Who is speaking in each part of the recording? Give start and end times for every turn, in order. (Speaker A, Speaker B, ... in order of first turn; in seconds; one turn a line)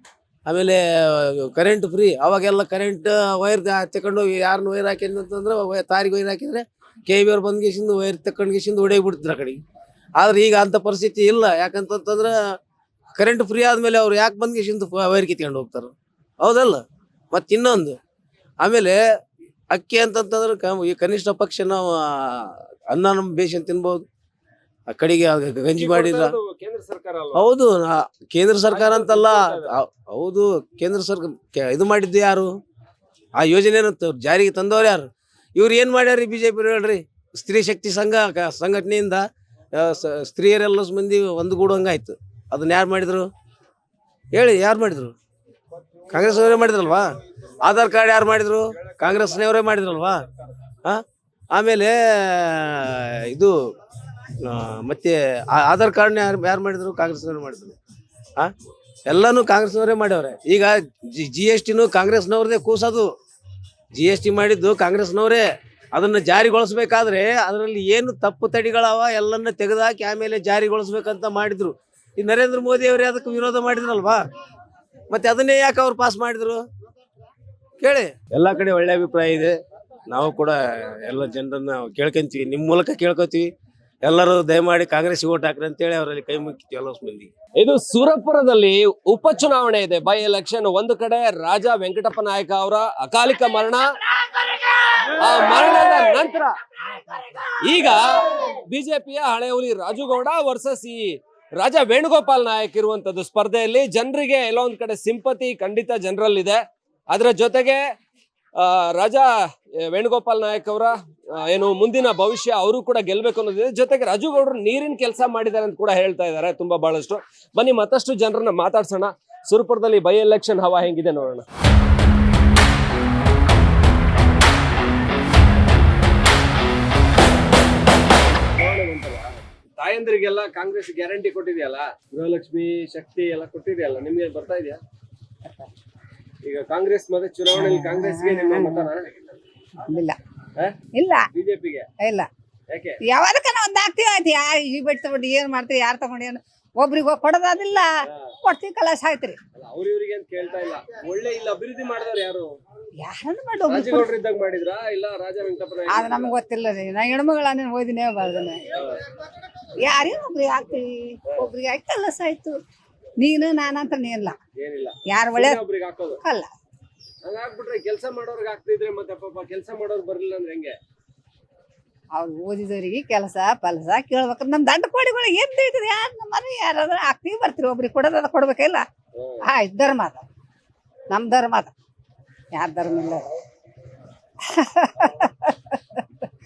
Speaker A: 0.5-9.6
Speaker A: 10.2-12.3
Speaker A: 13.2-18.0
Speaker A: 18.6-19.0
Speaker A: 19.7-24.0
Speaker A: 24.9-26.4
Speaker B: 25.7-27.5
Speaker A: 27.3-32.5
Speaker B: 28.7-29.8
Speaker A: 33.4-43.3
Speaker A: 44.3-45.1
Speaker A: 46.1-47.1
Speaker A: 47.6-50.2
Speaker A: 50.8-53.5
Speaker A: 54.4-57.8
Speaker A: 59.1-63.1
Speaker A: 64.0-74.2
Speaker A: 75.1-76.6
Speaker A: 77.8-79.6
Speaker A: 80.1-83.5
Speaker A: 84.0-87.3
Speaker B: 87.5-93.8
Speaker B: 95.2-96.5
Speaker B: 97.6-107.8
Speaker B: 108.6-109.3
Speaker B: 109.8-121.4
Speaker B: 128.5-134.8
Speaker B: 136.4-139.2
Speaker C: 137.5-138.9
Speaker C: 139.9-140.2
Speaker C: 140.9-141.2
Speaker B: 141.3-141.9
Speaker C: 142.0-142.3
Speaker B: 142.7-143.0
Speaker C: 143.0-147.9
Speaker B: 148.1-148.3
Speaker C: 148.4-149.4
Speaker B: 149.6-152.6
Speaker C: 153.0-154.1
Speaker B: 153.7-156.3
Speaker C: 155.9-158.6
Speaker C: 159.8-162.6
Speaker C: 163.2-164.3
Speaker B: 164.6-166.2
Speaker C: 165.1-165.6
Speaker C: 166.2-166.5
Speaker B: 167.2-170.8
Speaker C: 172.1-178.8
Speaker B: 179.2-179.4
Speaker C: 179.4-180.2
Speaker C: 181.1-181.7
Speaker C: 182.5-183.2
Speaker C: 184.4-186.0